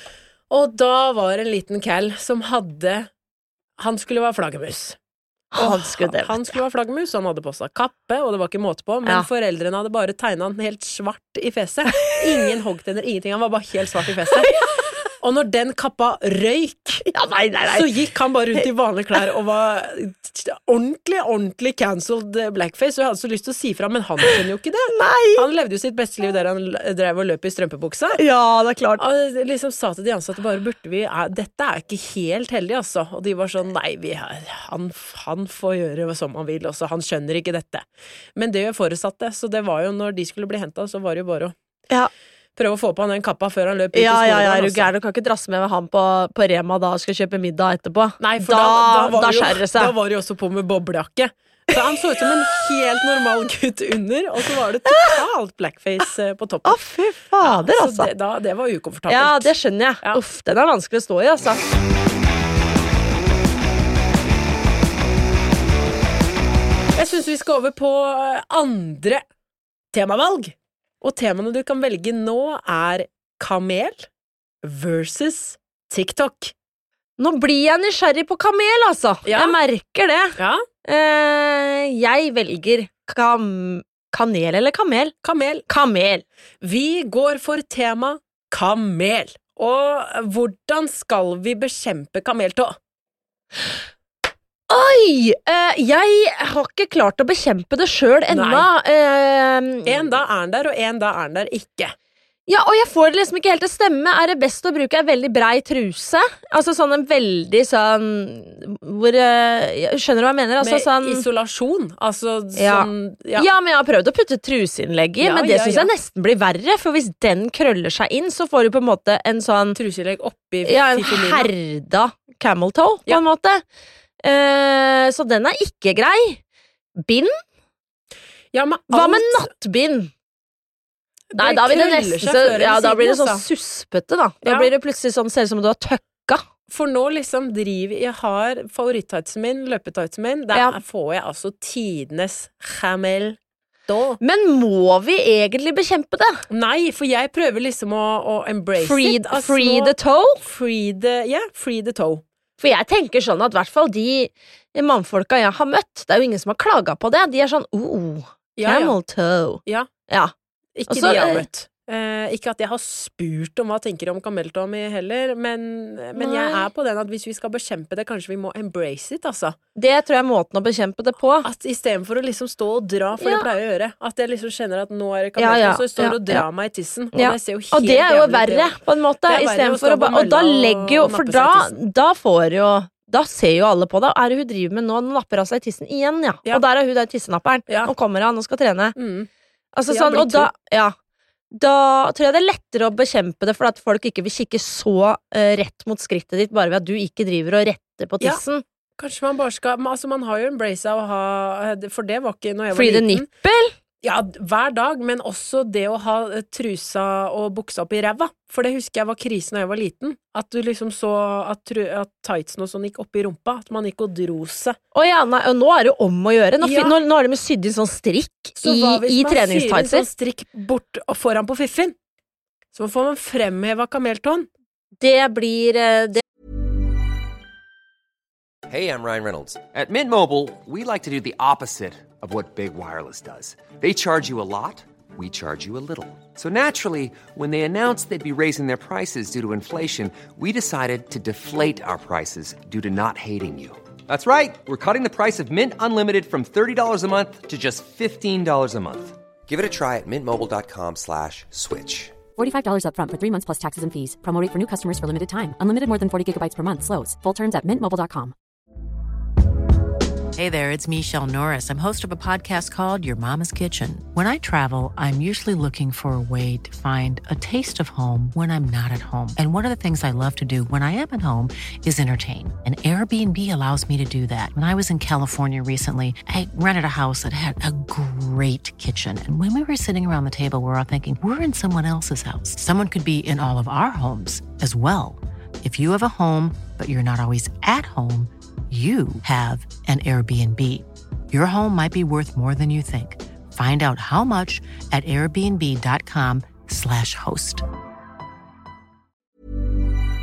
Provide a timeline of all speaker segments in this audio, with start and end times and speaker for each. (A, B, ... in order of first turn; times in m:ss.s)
0:00.5-0:03.1 A
0:03.8-0:05.0 A
0:05.5-0:06.5 B
0:05.6-0:14.6 A
0:14.4-0:14.7 B
0:15.2-0:17.1 A
0:17.1-0:17.9 B
0:17.7-0:28.2 A
0:24.9-0:25.5 B
0:28.2-0:29.0 B
0:29.0-0:41.5 A
0:42.6-0:44.9 A
0:43.9-0:49.9 B
0:48.2-0:56.8 A
0:54.9-0:55.2 B
0:56.6-0:58.1 B
0:57.4-0:59.5 A
0:59.1-1:01.6 B
1:07.0-1:09.2 A
1:09.9-1:14.1 A
1:14.6-1:16.5 A
1:17.2-1:25.1 B
1:19.2-1:19.6 A
1:20.4-1:20.6 A
1:25.2-1:25.6 A
1:25.7-1:26.2 B
1:26.6-1:32.8 A
1:34.7-1:40.2 B
1:38.3-1:38.7 A
1:39.9-1:41.9 A
1:42.5-1:51.2 B
1:50.6-1:53.5 A
1:52.6-1:59.8 B
1:55.2-1:55.9 A
1:59.8-2:01.5 A
2:00.6-2:03.6 B
2:04.2-2:06.4 B
2:07.0-2:07.3 B
2:08.5-2:09.5 A
2:08.9-2:10.1 B
2:11.3-2:13.5 A
2:11.4-2:16.4 B
2:14.4-2:14.7 A
2:16.7-2:24.2 A
2:20.5-2:20.8 B
2:24.2-2:26.4 B
2:26.5-2:32.2 A
2:28.8-2:30.4 B
2:32.6-2:40.3 B
2:38.6-2:39.0 A
2:40.8-2:49.6 A
2:40.9-2:41.4 B
2:46.1-2:46.7 B
2:49.8-2:51.5 B
2:51.4-3:01.8 A
2:53.2-2:53.5 B
2:55.4-2:56.4 B
2:57.1-3:09.0 B
3:07.7-3:07.9 A
3:09.0-3:09.3 A
3:09.7-3:10.9 B
3:09.9-3:10.5 A
3:11.5-3:18.6 B
3:19.0-3:23.3 A
3:22.7-3:23.7 B
3:24.0-3:34.8 A
3:34.9-3:40.1 B
3:36.6-3:37.0 A
3:38.6-3:42.0 A
3:42.7-3:44.5 A
3:45.0-3:46.2 B
3:48.7-4:12.2 C
4:12.4-4:18.3 D
4:20.4-4:57.6 E